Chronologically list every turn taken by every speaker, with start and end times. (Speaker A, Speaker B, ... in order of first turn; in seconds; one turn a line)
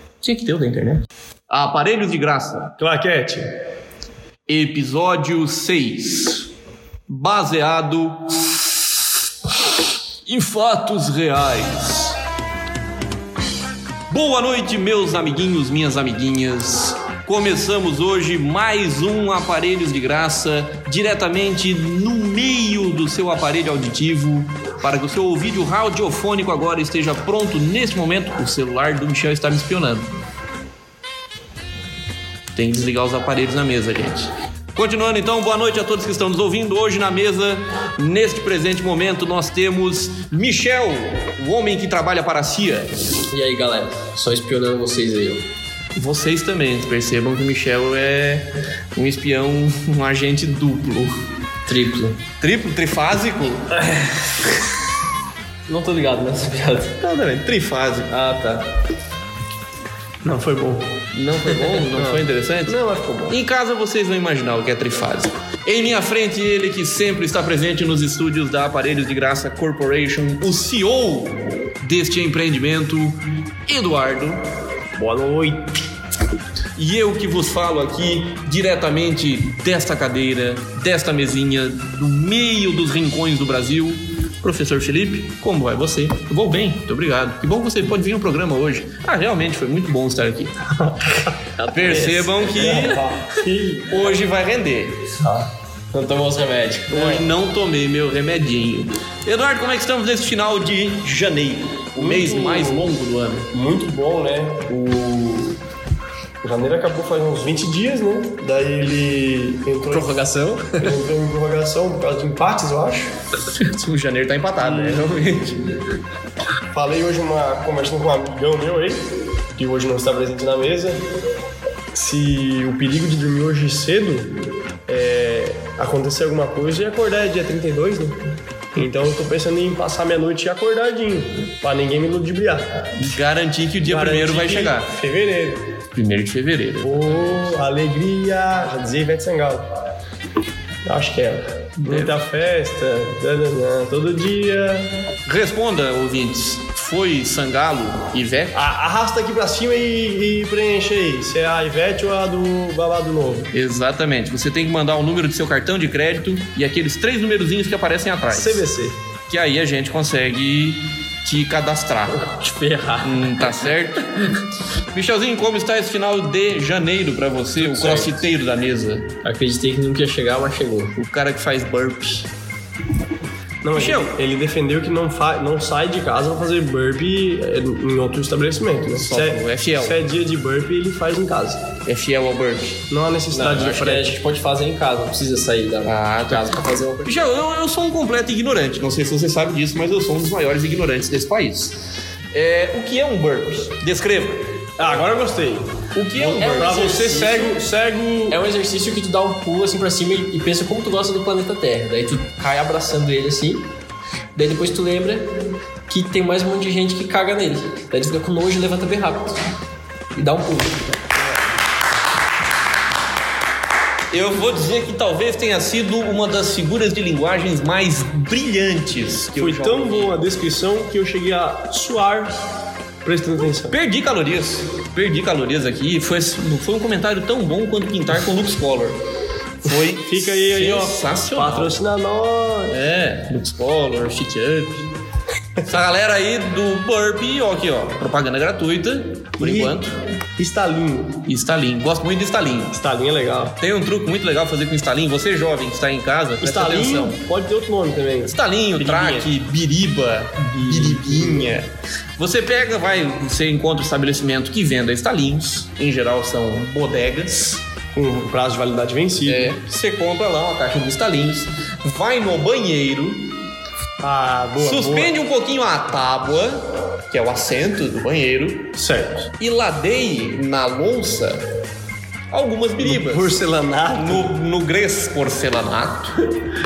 Speaker A: 0.2-2.7
Speaker B: 2.8-3.5
Speaker A: 4.5-6.5
Speaker A: 7.1-9.0
Speaker A: 10.3-12.1
Speaker A: 14.1-30.1
Speaker A: 32.5-42.9
Speaker C: 43.3-45.5
Speaker A: 46.0-51.1
Speaker C: 51.7-52.2
Speaker A: 52.4-53.7
Speaker C: 53.8-54.3
Speaker C: 55.7-56.9
Speaker A: 57.0-58.1
Speaker C: 58.1-58.7
Speaker B: 60.2-61.0
Speaker A: 61.1-74.4
Speaker B: 62.0-63.4
Speaker B: 75.0-75.7
Speaker A: 76.8-90.5
Speaker C: 91.4-93.0
Speaker A: 91.7-93.0
Speaker B: 92.5-94.2
Speaker A: 93.9-95.0
Speaker C: 95.2-97.2
Speaker A: 96.9-103.5
Speaker B: 102.0-102.9
Speaker B: 103.5-104.7
Speaker C: 104.7-105.5
Speaker B: 106.4-110.1
Speaker C: 109.9-111.0
Speaker B: 110.8-113.1
Speaker A: 113.5-115.6
Speaker B: 114.6-115.2
Speaker B: 116.7-121.0
Speaker B: 121.9-124.3
Speaker B: 124.9-128.2
Speaker B: 128.7-132.7
Speaker A: 133.0-134.9
Speaker B: 133.8-135.7
Speaker A: 135.9-137.5
Speaker B: 136.8-139.7
Speaker B: 140.8-144.9
Speaker A: 141.9-142.2
Speaker A: 145.3-148.6
Speaker B: 148.5-153.5
Speaker A: 153.5-158.7
Speaker B: 158.3-159.0
Speaker A: 159.3-162.2
Speaker C: 162.2-163.9
Speaker A: 163.0-164.0
Speaker A: 164.9-169.1
Speaker C: 167.6-168.2
Speaker C: 169.2-170.9
Speaker A: 170.9-172.3
Speaker B: 173.6-181.6
Speaker A: 173.7-174.1
Speaker A: 178.9-180.0
Speaker A: 181.8-182.8
Speaker B: 182.9-184.2
Speaker C: 183.3-187.1
Speaker A: 185.8-191.8
Speaker A: 192.3-194.7
Speaker B: 194.8-198.4
Speaker A: 195.9-197.5
Speaker C: 196.4-197.5
Speaker C: 198.3-203.7
Speaker C: 204.3-205.3
Speaker C: 205.9-209.4
Speaker C: 210.1-211.0
Speaker A: 214.1-220.2
Speaker B: 219.4-222.3
Speaker B: 223.0-223.8
Speaker A: 223.7-229.0
Speaker A: 229.6-231.8
Speaker B: 229.9-232.8
Speaker A: 232.7-234.9
Speaker A: 235.6-240.0
Speaker B: 239.4-239.8
Speaker B: 240.4-241.2
Speaker A: 241.2-242.8
Speaker B: 242.7-243.6
Speaker A: 243.6-247.2
Speaker B: 246.4-249.3
Speaker A: 248.3-257.6
Speaker B: 250.5-251.6
Speaker B: 257.9-259.5
Speaker A: 259.2-263.3
Speaker B: 264.0-265.1
Speaker A: 264.6-268.7
Speaker B: 268.8-269.3
Speaker A: 269.4-271.4
Speaker A: 272.3-273.4
Speaker B: 272.8-274.4
Speaker A: 273.9-276.2